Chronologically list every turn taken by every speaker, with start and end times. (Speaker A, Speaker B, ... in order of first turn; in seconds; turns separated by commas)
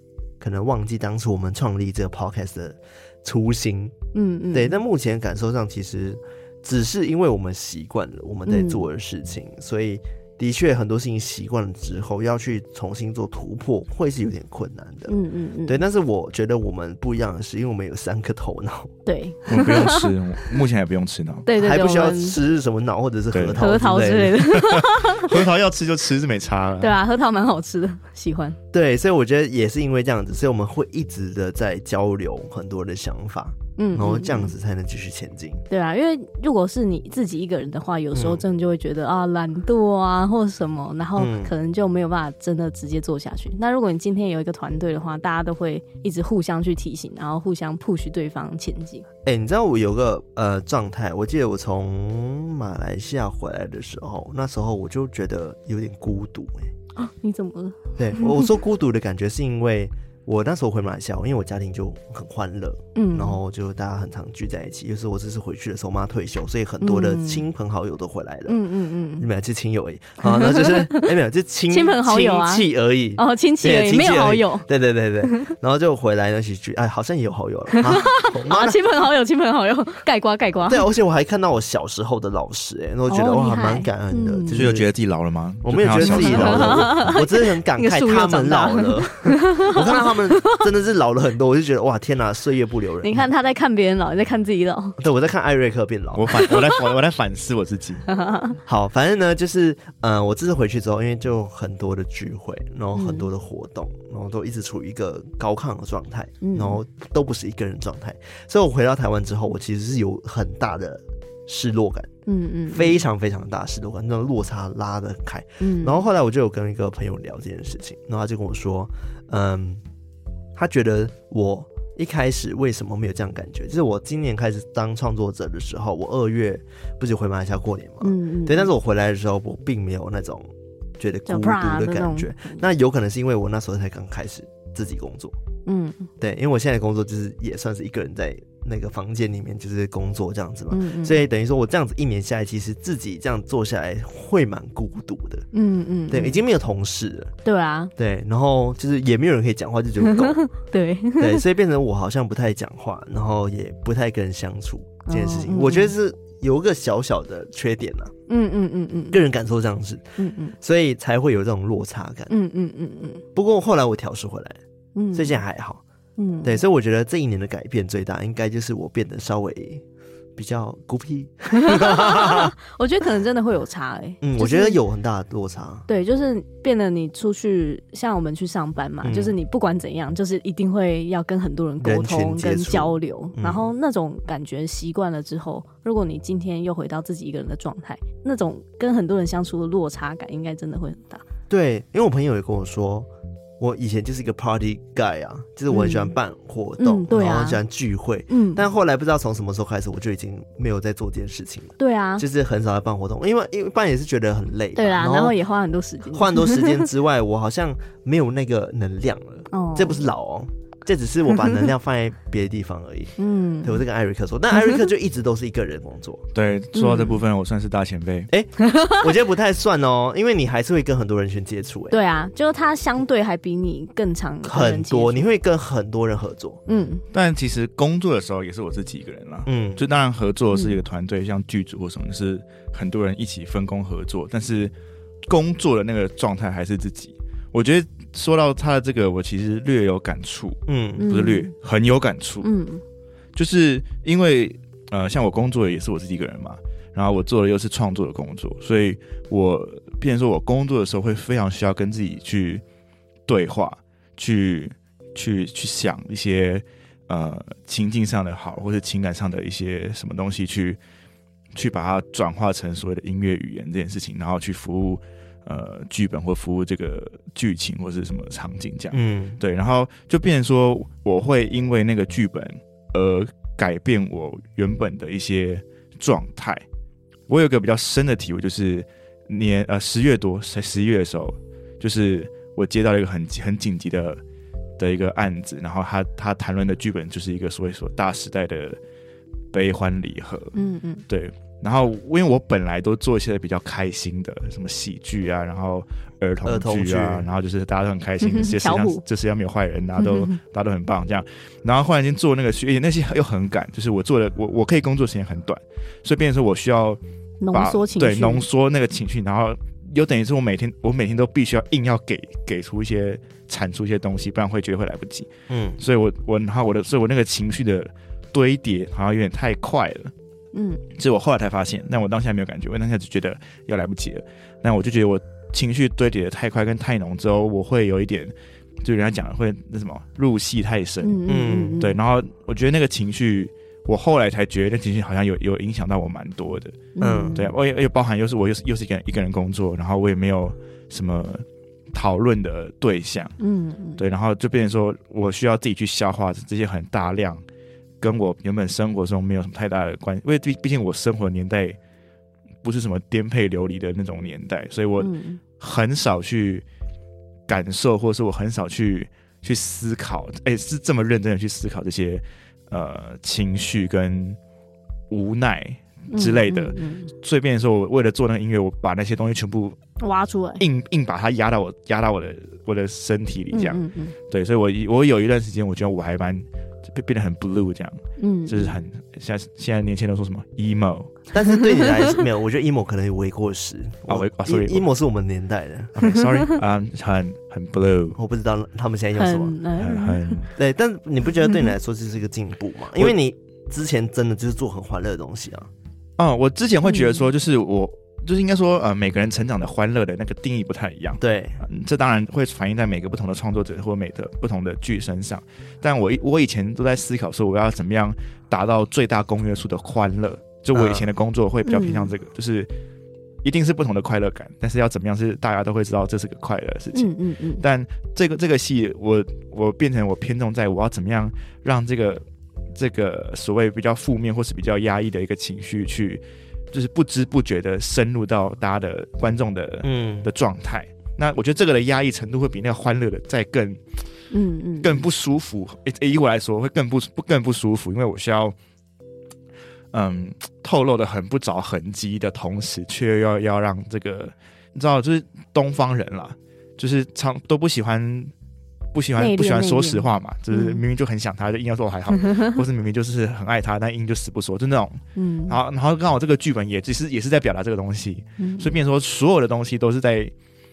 Speaker A: 0.4-4.0, Speaker B: 4.1-4.8, Speaker A: 4.5-18.9, Speaker B: 8.5-8.9, Speaker B: 15.1-15.8, Speaker B: 19.1-20.1, Speaker C: 19.5-21.5, Speaker B: 21.5-22.4, Speaker A: 21.6-24.5, Speaker C: 23.3-23.6, Speaker B: 23.6-25.4, Speaker C: 24.5-27.0, Speaker B: 26.8-28.6, Speaker A: 28.7-35.6, Speaker B: 33.8-34.5, Speaker B: 35.7-49.1, Speaker A: 38.1-38.4, Speaker A: 41.2-41.5, Speaker A: 49.2-56.7, Speaker B: 57.0-58.5, Speaker A: 58.0-68.6, Speaker B: 63.0-63.4, Speaker B: 66.8-67.5, Speaker B: 68.5-69.3, Speaker A: 69.2-78.8, Speaker B: 70.2-71.1, Speaker B: 71.7-74.7, Speaker B: 75.3-75.5, Speaker B: 77.7-80.9, Speaker A: 80.7-84.9, Speaker B: 83.1-84.7, Speaker C: 84.5-87.1, Speaker A: 85.6-93.3, Speaker B: 86.0-90.6, Speaker B: 93.0-95.0, Speaker A: 95.0-96.4, Speaker C: 96.1-98.0, Speaker B: 96.3-96.8, Speaker B: 98.1-98.6, Speaker A: 98.7-112.1, Speaker B: 102.9-103.3, Speaker B: 106.4-106.8, Speaker B: 112.3-113.0, Speaker A: 112.7-119.8, Speaker B: 115.6-116.0, Speaker A: 120.5-135.4, Speaker B: 128.0-128.7, Speaker B: 131.3-132.6, Speaker B: 135.7-136.1, Speaker A: 136.2-145.5, Speaker B: 140.7-141.2, Speaker B: 145.5-146.4, Speaker A: 146.1-147.3, Speaker B: 147.4-147.9, Speaker A: 148.0-150.4, Speaker B: 150.0-151.4, Speaker A: 151.2-158.1, Speaker B: 155.1-155.9, Speaker B: 158.3-159.2, Speaker A: 159.1-162.3, Speaker B: 160.2-160.6, Speaker B: 162.3-163.2, Speaker A: 163.3-164.6, Speaker B: 165.0-165.4, Speaker A: 165.1-165.8, Speaker B: 166.2-166.6, Speaker A: 166.4-169.8, Speaker A: 170.4-172.5, Speaker B: 171.5-174.8, Speaker A: 174.2-175.9, Speaker B: 175.9-191.2, Speaker A: 179.0-179.4, Speaker A: 181.8-183.7, Speaker A: 191.5-193.1, Speaker A: 193.6-205.4, Speaker B: 195.7-196.2, Speaker B: 196.8-197.6, Speaker B: 198.3-198.7, Speaker B: 201.8-202.2, Speaker B: 204.8-206.9, Speaker A: 206.1-216.2, Speaker B: 209.5-210.1, Speaker B: 213.2-213.8, Speaker C: 216.3-218.3, Speaker B: 216.8-217.2, Speaker A: 218.3-222.0, Speaker B: 218.6-219.0, Speaker B: 221.9-225.3, Speaker A: 224.4-226.6, Speaker B: 226.7-227.0, Speaker C: 227.1-234.7, Speaker A: 229.5-229.8, Speaker B: 230.5-230.8, Speaker C: 235.3-242.5, Speaker A: 240.7-241.1, Speaker B: 241.0-241.5, Speaker B: 242.4-242.8, Speaker C: 243.3-252.6, Speaker C: 253.3-260.8, Speaker C: 261.5-276.6, Speaker A: 268.9-269.4, Speaker C: 277.3-284.2, Speaker C: 284.8-288.8, Speaker C: 289.5-290.5, Speaker B: 290.5-291.0, Speaker C: 291.1-307.0, Speaker A: 296.4-297.3, Speaker B: 298.2-299.0, Speaker B: 300.0-300.4, Speaker B: 307.4-308.4, Speaker C: 307.5-320.1, Speaker A: 315.5-315.8, Speaker B: 320.5-320.8, Speaker C: 320.9-331.2, Speaker B: 331.0-332.0, Speaker A: 331.3-331.8, Speaker C: 331.8-343.3, Speaker B: 336.9-337.5, Speaker A: 337.0-337.4, Speaker B: 343.4-344.0, Speaker C: 344.0-347.4, Speaker C: 348.0-351.8, Speaker C: 352.6-356.6, Speaker B: 355.0-355.4, Speaker C: 357.5-364.4, Speaker C: 365.1-369.8, Speaker B: 366.1-367.1, Speaker B: 370.0-370.6, Speaker C: 370.6-381.2, Speaker B: 373.5-374.1, Speaker B: 378.2-378.8, Speaker A: 381.3-386.0, Speaker C: 384.1-384.9, Speaker C: 386.0-388.2, Speaker A: 388.2-389.6, Speaker B: 389.2-390.4, Speaker C: 389.8-390.5, Speaker A: 390.6-395.7, Speaker C: 396.2-412.7, Speaker B: 396.9-397.3, Speaker A: 401.2-401.6, Speaker A: 410.7-411.1, Speaker B: 411.7-412.1, Speaker C: 413.4-433.8, Speaker B: 416.9-417.6, Speaker A: 429.8-430.3, Speaker B: 434.3-435.1, Speaker C: 434.8-438.6, Speaker C: 439.9-448.3, Speaker C: 448.9-460.3, Speaker B: 449.2-450.8, Speaker B: 452.3-452.5, Speaker B: 455.1-455.6, Speaker B: 458.4-458.7